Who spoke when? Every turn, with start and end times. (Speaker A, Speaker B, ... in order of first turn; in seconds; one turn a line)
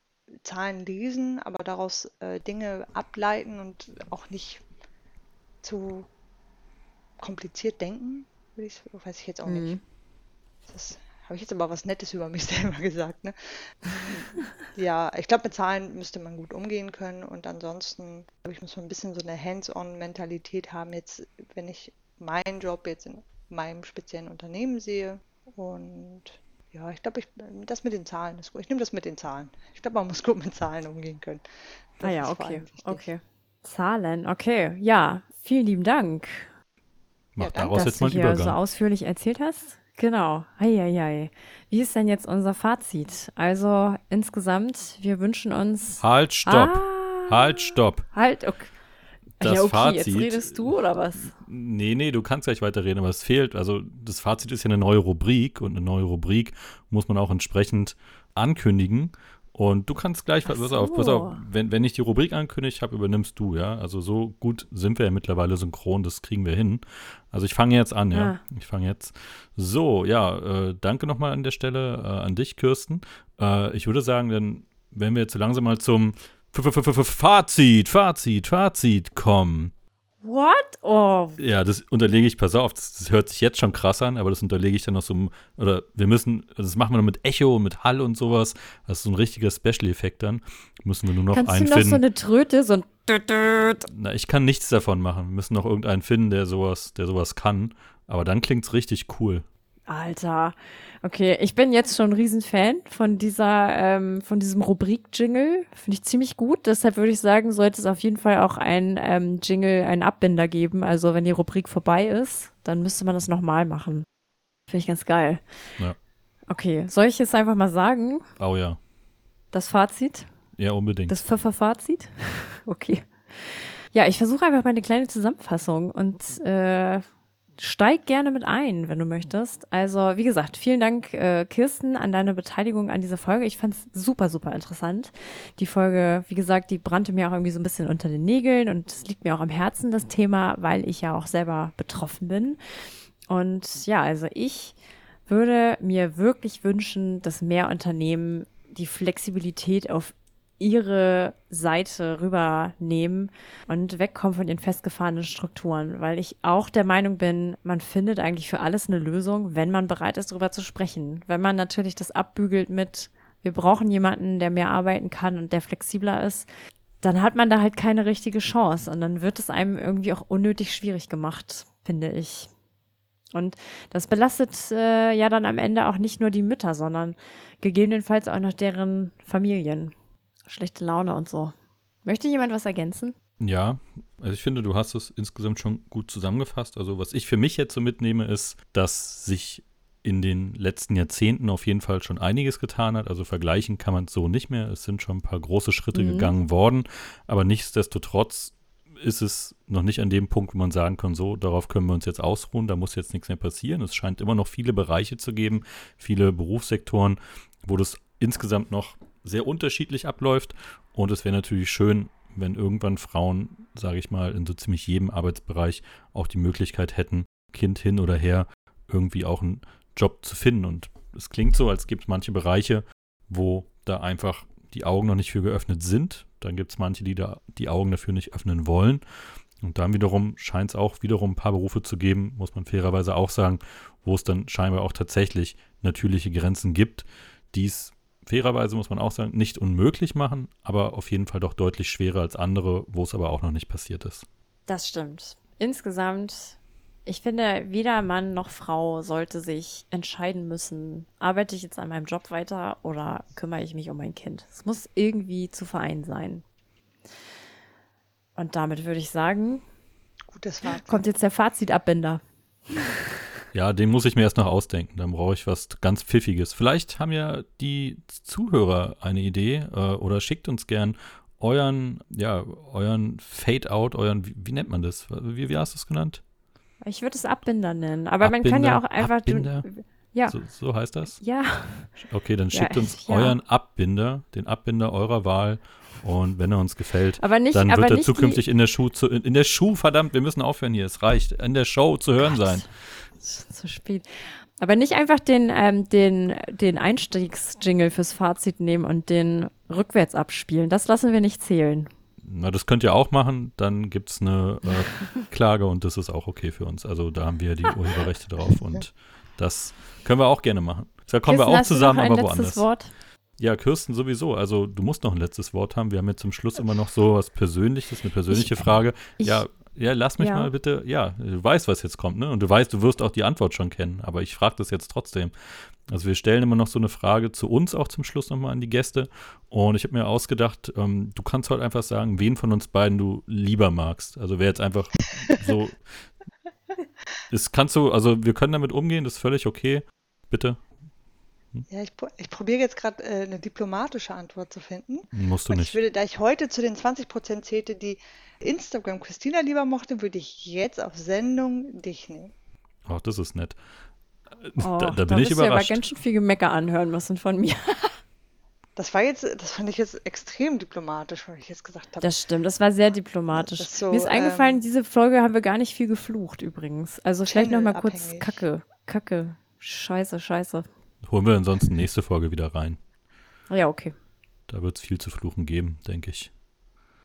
Speaker A: 0.4-4.6
Speaker A: 5.6-6.1
Speaker A: 7.2-9.8
Speaker B: 9.4-9.8
Speaker A: 10.7-31.4
Speaker A: 32.0-33.0
Speaker B: 32.0-36.5
Speaker C: 37.3-38.6
Speaker A: 37.4-37.9
Speaker B: 37.7-48.7
Speaker C: 46.0-48.0
Speaker B: 49.4-51.3
Speaker C: 49.4-79.7
Speaker B: 60.5-61.4
Speaker B: 68.1-68.4
Speaker B: 80.2-81.4
Speaker C: 81.4-92.0
Speaker B: 91.3-93.9
Speaker C: 93.9-99.5
Speaker B: 99.9-114.0
Speaker B: 114.7-115.4
Speaker B: 116.5-118.2
Speaker C: 118.4-118.8
Speaker B: 119.5-120.3
Speaker C: 120.6-121.2
Speaker B: 121.1-127.0
Speaker B: 127.6-142.6
Speaker B: 143.3-144.8
Speaker B: 145.3-166.5
Speaker B: 167.0-172.5
Speaker B: 173.3-179.9
Speaker B: 180.4-181.5
Speaker B: 182.0-183.1
Speaker C: 183.4-229.0
Speaker B: 195.9-196.3
Speaker C: 229.6-244.2
Speaker B: 244.7-256.4
Speaker B: 258.4-259.6
Speaker A: 260.3-261.0
Speaker B: 260.6-263.0
Speaker C: 263.5-276.2
Speaker B: 276.8-280.4
Speaker C: 278.2-279.7
Speaker C: 280.3-281.2
Speaker B: 281.2-281.9
Speaker C: 282.0-292.6
Speaker B: 282.5-283.4
Speaker B: 287.2-288.4
Speaker B: 292.3-292.6
Speaker B: 293.2-301.9
Speaker C: 302.2-312.6
Speaker B: 311.2-312.9
Speaker C: 313.4-335.8
Speaker B: 318.3-319.4
Speaker B: 320.2-320.5
Speaker C: 337.3-340.6
Speaker A: 341.7-352.3
Speaker C: 345.1-345.8
Speaker C: 352.9-353.6
Speaker C: 354.3-355.8
Speaker B: 354.6-358.0
Speaker A: 358.8-362.1
Speaker B: 362.0-370.7
Speaker A: 363.3-364.6
Speaker A: 367.2-368.4
Speaker C: 371.0-372.8
Speaker B: 373.5-373.9
Speaker C: 374.5-376.3